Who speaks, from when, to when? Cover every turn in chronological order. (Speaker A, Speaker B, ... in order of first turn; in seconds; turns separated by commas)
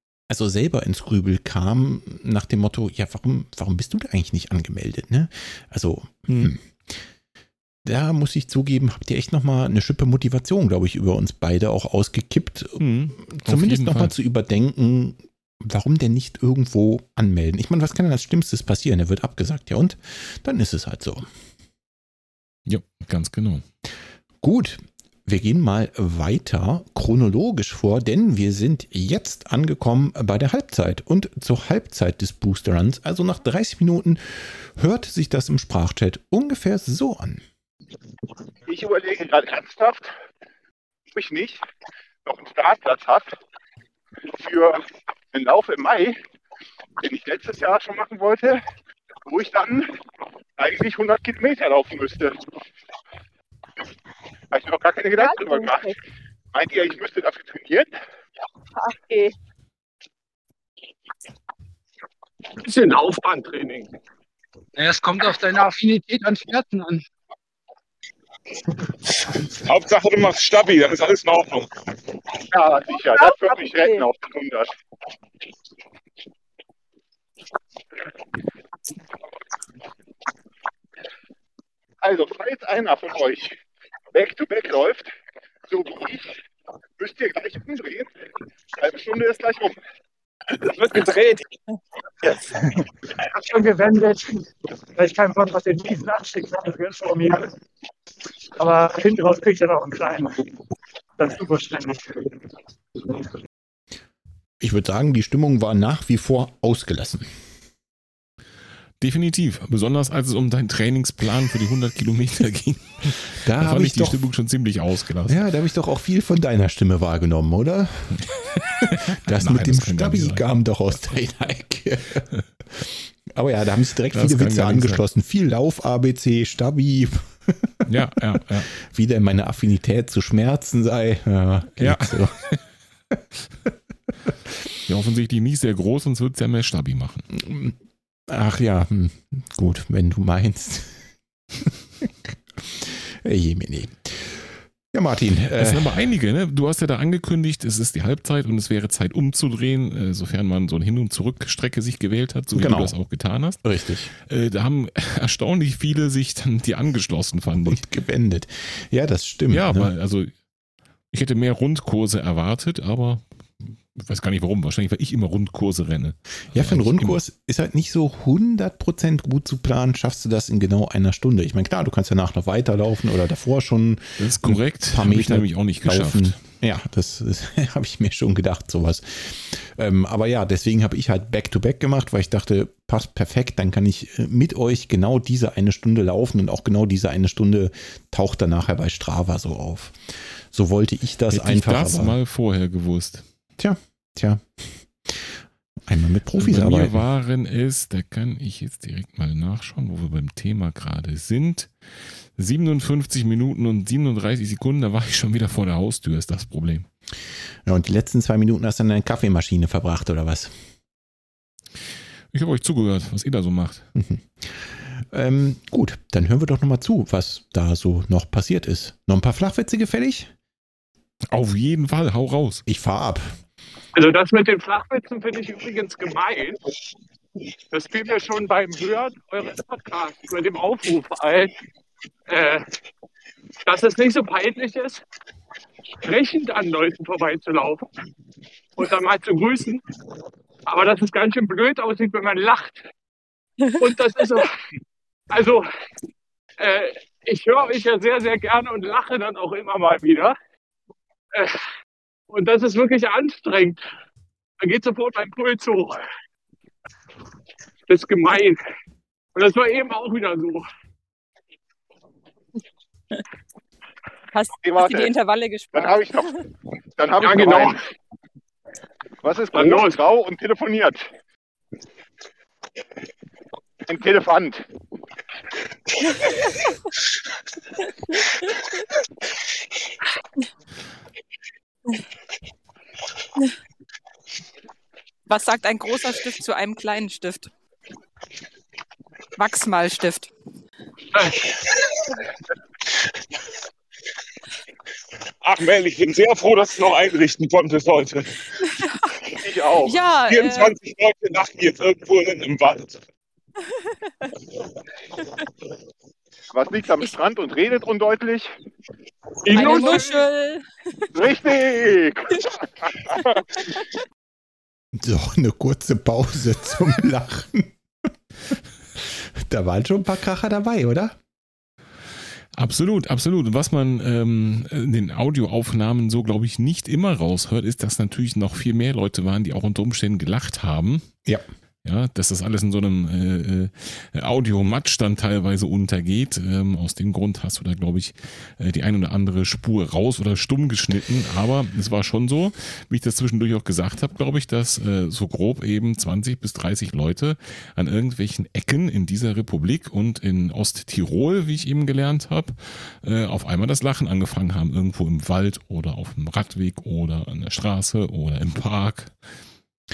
Speaker A: 0.3-6.6, Speaker B: 6.3-6.5, Speaker A: 7.8-21.3, Speaker B: 12.8-14.1, Speaker B: 22.6-23.6, Speaker A: 24.4-37.4, Speaker C: 38.7-40.1, Speaker C: 41.1-41.6, Speaker C: 42.2-43.4, Speaker C: 44.3-46.2, Speaker C: 47.0-48.6, Speaker C: 49.3-49.9, Speaker C: 50.6-52.4, Speaker C: 54.5-55.9, Speaker D: 55.2-56.0, Speaker C: 56.5-57.9, Speaker D: 58.8-59.3, Speaker E: 62.6-63.9, Speaker F: 64.8-67.0, Speaker G: 69.4-71.7, Speaker C: 72.5-74.7, Speaker D: 72.9-74.0, Speaker C: 82.0-83.6, Speaker C: 84.1-85.1, Speaker C: 85.7-86.3, Speaker C: 87.0-88.1, Speaker C: 88.8-89.8, Speaker E: 90.7-91.4, Speaker H: 93.3-97.5, Speaker H: 98.6-100.5, Speaker H: 101.2-102.3, Speaker A: 104.6-107.3, Speaker B: 109.0-115.5, Speaker A: 113.4-114.2, Speaker A: 115.3-127.8, Speaker B: 118.9-120.4, Speaker B: 124.1-125.0, Speaker B: 127.9-128.7, Speaker A: 128.7-132.3, Speaker B: 131.8-132.6, Speaker B: 134.8-137.2, Speaker A: 137.3-137.8, Speaker A: 138.3-141.0, Speaker A: 141.6-145.9, Speaker B: 145.6-153.6, Speaker A: 152.5-152.9, Speaker A: 153.6-154.1, Speaker B: 154.2-157.8, Speaker A: 157.7-159.9, Speaker B: 159.5-160.3, Speaker B: 161.1-167.2, Speaker A: 166.5-189.9, Speaker B: 174.2-176.4, Speaker A: 190.5-192.2, Speaker B: 191.3-193.2, Speaker A: 193.6-195.3, Speaker A: 195.8-197.0, Speaker B: 196.3-201.7, Speaker B: 202.4-206.8, Speaker A: 207.7-210.5, Speaker B: 212.3-213.9, Speaker A: 213.9-220.3, Speaker B: 221.3-222.6, Speaker A: 222.7-223.3, Speaker E: 223.9-226.6, Speaker E: 227.7-231.5, Speaker E: 232.3-232.6, Speaker E: 233.7-235.0, Speaker E: 236.0-237.9, Speaker E: 238.8-239.8, Speaker E: 240.7-242.8, Speaker E: 243.8-244.6, Speaker E: 245.3-245.7, Speaker E: 246.6-250.3, Speaker E: 252.3-253.8, Speaker E: 254.6-256.0, Speaker E: 257.9-258.6, Speaker E: 259.3-260.7, Speaker I: 264.3-266.3, Speaker C: 264.6-265.1, Speaker C: 265.7-266.3, Speaker C: 267.0-267.8, Speaker E: 267.2-267.7, Speaker C: 269.2-271.0, Speaker E: 269.5-269.9, Speaker C: 273.9-274.6, Speaker I: 285.3-287.5, Speaker I: 289.4-290.3, Speaker G: 295.4-298.3, Speaker I: 298.6-299.1, Speaker C: 299.4-300.0, Speaker I: 299.8-300.7, Speaker G: 300.3-303.0, Speaker C: 306.5-308.5, Speaker E: 309.4-310.3, Speaker I: 309.5-310.6, Speaker C: 311.1-312.9, Speaker A: 314.9-317.7, Speaker A: 319.0-321.2, Speaker B: 322.6-331.1, Speaker B: 331.8-359.1